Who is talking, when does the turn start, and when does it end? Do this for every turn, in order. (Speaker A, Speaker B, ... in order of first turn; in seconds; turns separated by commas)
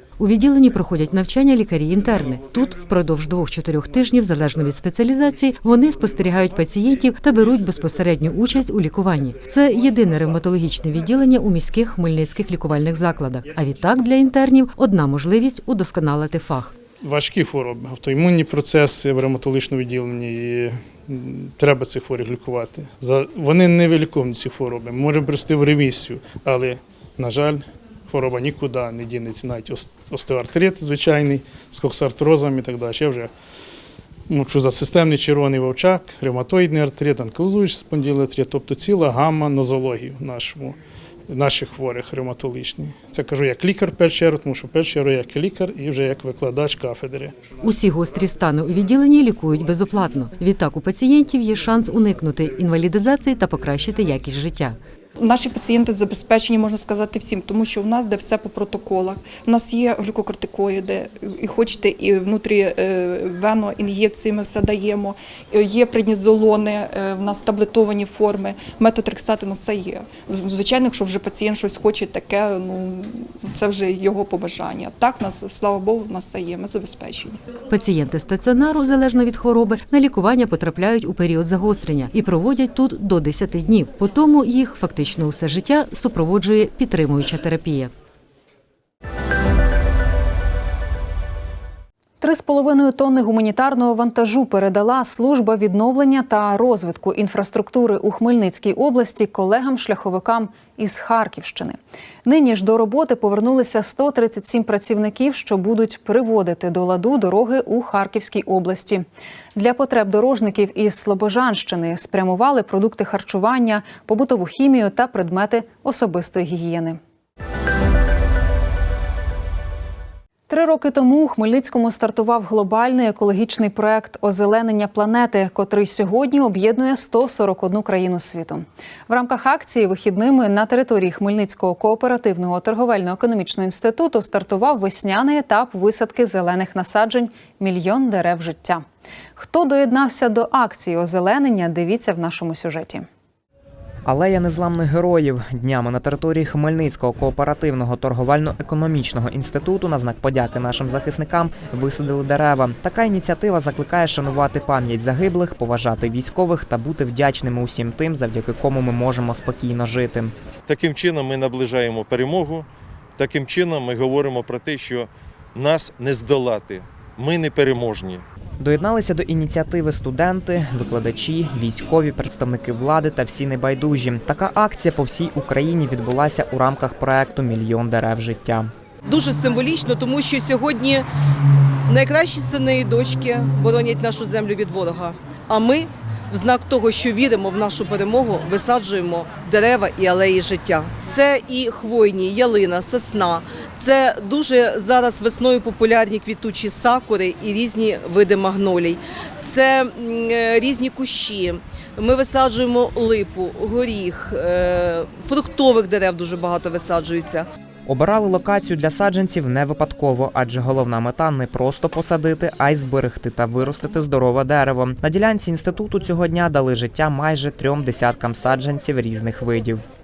Speaker A: 0.2-16.7, Speaker B: 17.0-33.3, Speaker B: 34.3-40.8, Speaker B: 41.3-47.5, Speaker A: 47.6-54.8, Speaker C: 55.2-77.4, Speaker A: 77.7-87.9, Speaker D: 92.2-117.0, Speaker D: 120.5-138.8, Speaker D: 139.4-143.1, Speaker E: 144.1-160.3, Speaker F: 160.7-168.2, Speaker E: 168.6-178.7, Speaker G: 179.1-181.1, Speaker G: 181.9-207.5, Speaker E: 207.9-219.8